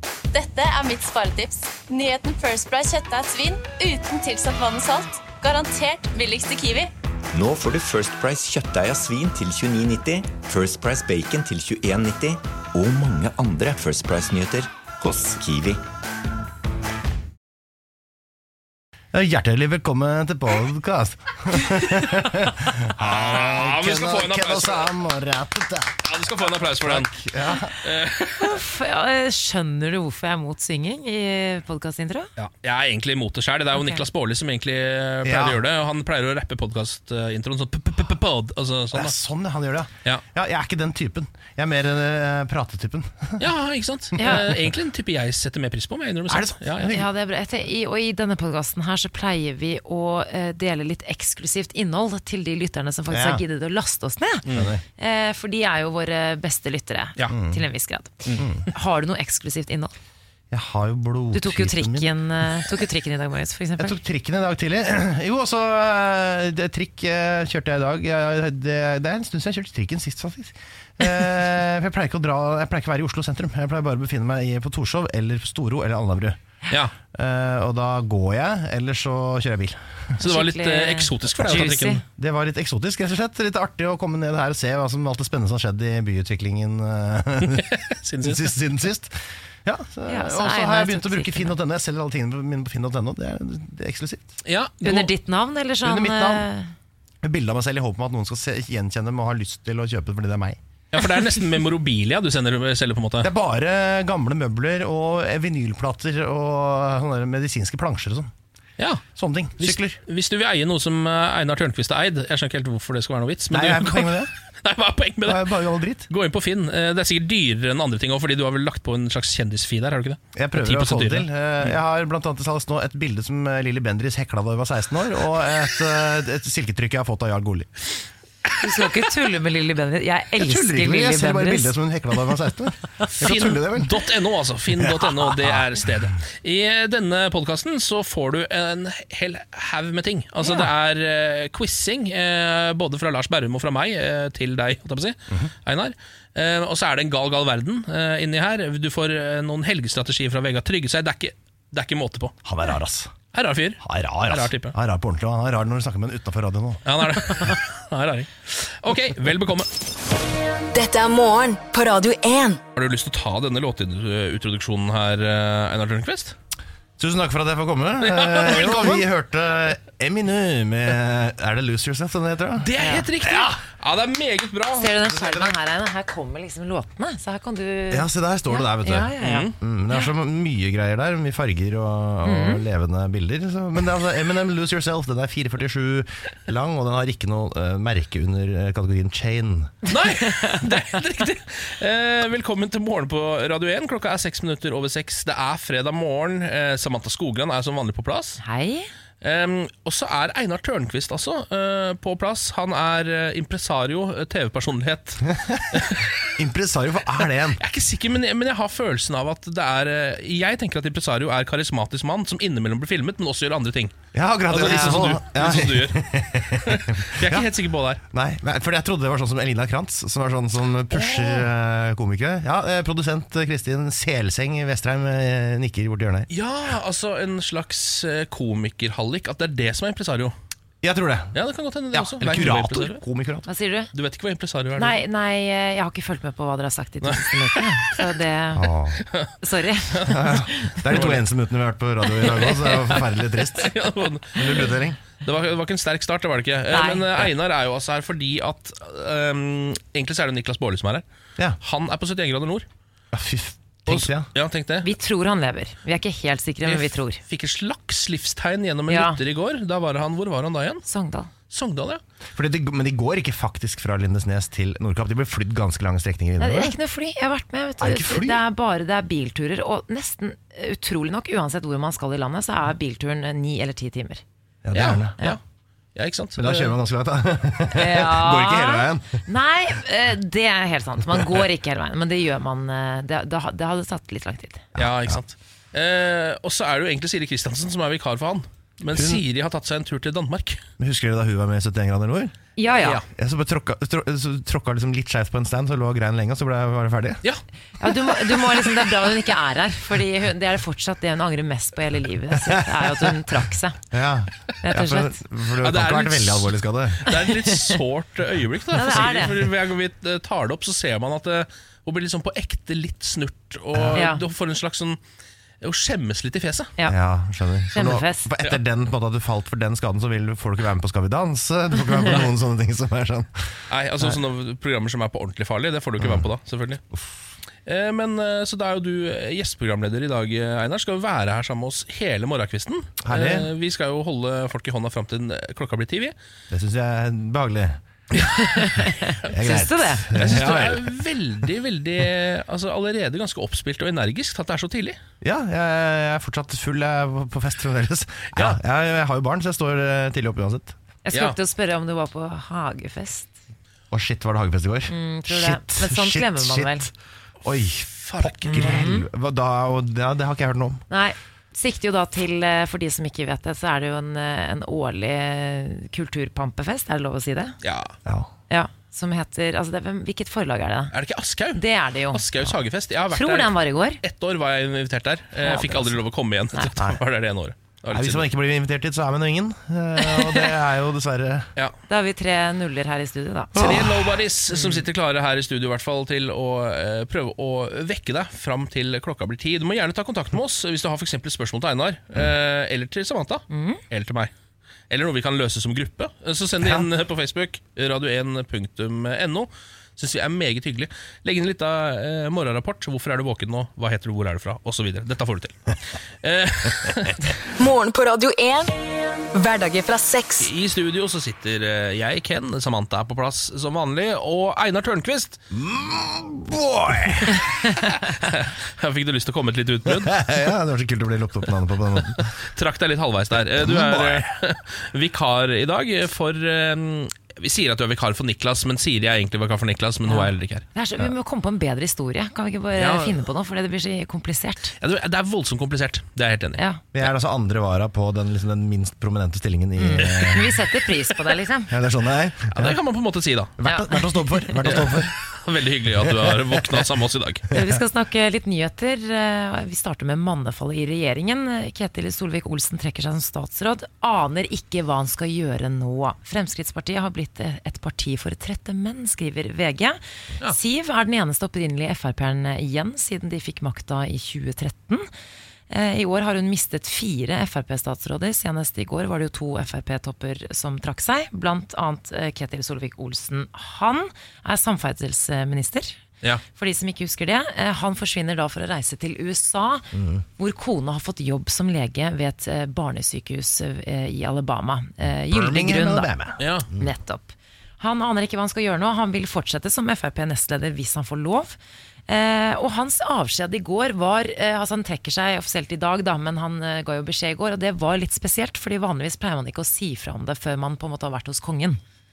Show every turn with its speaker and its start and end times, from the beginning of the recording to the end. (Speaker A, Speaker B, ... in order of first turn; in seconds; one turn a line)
Speaker A: 0.3-6.9
Speaker B: 7.3-15.8
Speaker C: 19.1-26.0
Speaker D: 23.0-24.9
Speaker D: 26.0-27.1
Speaker C: 26.7-27.7
Speaker D: 27.8-28.6
Speaker E: 28.3-32.3
Speaker D: 32.4-39.1
Speaker E: 33.8-34.0
Speaker C: 35.2-35.6
Speaker C: 38.9-43.4
Speaker D: 43.4-47.0
Speaker E: 44.2-44.5
Speaker C: 46.3-47.1
Speaker E: 46.9-54.5
Speaker C: 53.1-53.4
Speaker D: 54.5-54.7
Speaker C: 54.5-54.8
Speaker E: 55.0-59.9
Speaker C: 57.3-57.6
Speaker C: 58.4-58.6
Speaker C: 60.5-62.2
Speaker E: 61.3-64.0
Speaker C: 63.8-76.4
Speaker C: 77.1-79.8
Speaker E: 80.2-82.0
Speaker D: 80.2-82.0
Speaker C: 82.2-94.3
Speaker D: 87.8-88.5
Speaker E: 90.1-91.5
Speaker D: 94.4-95.1
Speaker E: 94.8-96.7
Speaker C: 95.8-96.5
Speaker C: 97.2-100.6
Speaker D: 100.9-103.3
Speaker C: 103.2-108.3
Speaker D: 108.8-109.0
Speaker C: 109.1-110.0
Speaker D: 109.6-115.5
Speaker C: 113.5-114.3
Speaker C: 115.2-116.1
Speaker D: 116.1-121.7
Speaker C: 120.3-127.7
Speaker E: 128.6-131.7
Speaker C: 130.3-134.0
Speaker D: 133.0-152.3
Speaker C: 134.7-135.6
Speaker C: 152.4-153.1
Speaker D: 153.3-154.7
Speaker C: 153.8-157.5
Speaker D: 156.8-159.7
Speaker F: 160.7-162.6
Speaker D: 162.7-166.3
Speaker C: 167.0-173.6
Speaker D: 168.0-169.0
Speaker D: 172.6-174.9
Speaker E: 172.8-173.0
Speaker E: 174.7-179.5
Speaker C: 175.1-175.5
Speaker C: 177.9-189.7
Speaker D: 179.2-179.5
Speaker E: 182.2-182.6
Speaker D: 189.8-198.4
Speaker E: 198.4-198.9
Speaker D: 199.2-206.2
Speaker C: 205.3-205.8
Speaker C: 206.3-207.6
Speaker D: 207.6-213.9
Speaker C: 214.1-217.5
Speaker D: 214.5-218.0
Speaker E: 214.6-215.1
Speaker C: 218.1-226.3
Speaker D: 226.3-230.3
Speaker C: 230.8-231.3
Speaker D: 231.3-233.0
Speaker C: 231.9-233.5
Speaker E: 233.5-233.9
Speaker D: 233.9-235.0
Speaker E: 234.8-238.7
Speaker D: 237.0-237.6
Speaker C: 238.5-239.0
Speaker E: 239.4-240.8
Speaker C: 240.0-243.7
Speaker D: 240.8-241.2
Speaker D: 242.3-251.0
Speaker C: 244.3-245.0
Speaker E: 246.7-247.3
Speaker D: 251.6-252.7
Speaker C: 253.1-254.3
Speaker D: 253.9-254.9
Speaker E: 254.8-257.2
Speaker D: 256.6-260.8
Speaker E: 258.9-259.2
Speaker E: 260.9-261.3
Speaker D: 261.5-262.0
Speaker C: 262.3-266.8
Speaker E: 266.4-274.2
Speaker C: 267.8-268.4
Speaker C: 274.6-275.1
Speaker D: 274.7-275.4
Speaker D: 275.9-276.7
Speaker C: 276.4-279.2
Speaker E: 277.7-284.7
Speaker C: 284.8-285.2
Speaker D: 284.8-290.6
Speaker C: 288.9-289.2
Speaker C: 290.8-292.3
Speaker E: 292.6-293.0
Speaker C: 293.1-297.2
Speaker E: 297.8-303.8
Speaker D: 298.2-298.6
Speaker C: 302.4-303.1
Speaker C: 303.9-307.1
Speaker E: 304.6-305.2
Speaker D: 305.6-315.0
Speaker E: 307.1-307.5
Speaker E: 308.7-309.4
Speaker C: 313.7-314.1
Speaker E: 313.9-314.2
Speaker D: 315.6-316.7
Speaker C: 316.9-323.3
Speaker E: 317.7-318.3
Speaker D: 323.7-326.8
Speaker C: 326.0-326.3
Speaker D: 327.6-336.1
Speaker C: 333.0-333.5
Speaker C: 336.5-337.8
Speaker E: 338.3-340.1
Speaker C: 339.2-340.9
Speaker D: 340.1-345.0
Speaker C: 345.2-350.8
Speaker E: 351.0-353.3
Speaker C: 353.9-356.9
Speaker E: 354.9-356.9
Speaker C: 357.4-360.8
Speaker D: 358.0-358.9
Speaker E: 358.6-359.0
Speaker E: 360.9-367.6
Speaker D: 367.6-367.9
Speaker C: 368.0-368.3
Speaker E: 368.5-370.9
Speaker D: 370.9-378.2
Speaker E: 371.5-372.2
Speaker E: 373.1-374.0
Speaker E: 375.4-375.9
Speaker C: 376.7-377.0
Speaker C: 377.9-381.5
Speaker E: 380.0-380.4
Speaker E: 381.9-383.6
Speaker C: 383.6-383.9
Speaker D: 383.6-394.3
Speaker E: 384.5-384.9
Speaker E: 393.5-393.8
Speaker D: 394.9-407.3
Speaker C: 396.6-396.9
Speaker F: 407.6-408.7
Speaker F: 409.3-410.5
Speaker D: 410.4-415.4
Speaker C: 415.5-417.4
Speaker D: 417.8-420.3
Speaker C: 419.9-422.3
Speaker D: 422.5-430.6
Speaker C: 423.4-424.3
Speaker E: 430.1-434.7
Speaker D: 432.8-433.1
Speaker D: 434.8-436.6
Speaker C: 436.9-440.5
Speaker E: 439.8-441.7
Speaker D: 440.0-440.4
Speaker C: 441.7-442.8
Speaker D: 442.5-443.6
Speaker C: 443.6-445.1
Speaker E: 443.6-444.6
Speaker D: 444.6-447.4
Speaker C: 446.0-446.6
Speaker E: 447.5-465.1
Speaker E: 465.7-476.0
Speaker E: 476.5-486.1
Speaker C: 479.9-480.2
Speaker C: 485.3-486.9
Speaker D: 486.4-486.7
Speaker E: 486.7-491.6
Speaker E: 492.1-501.8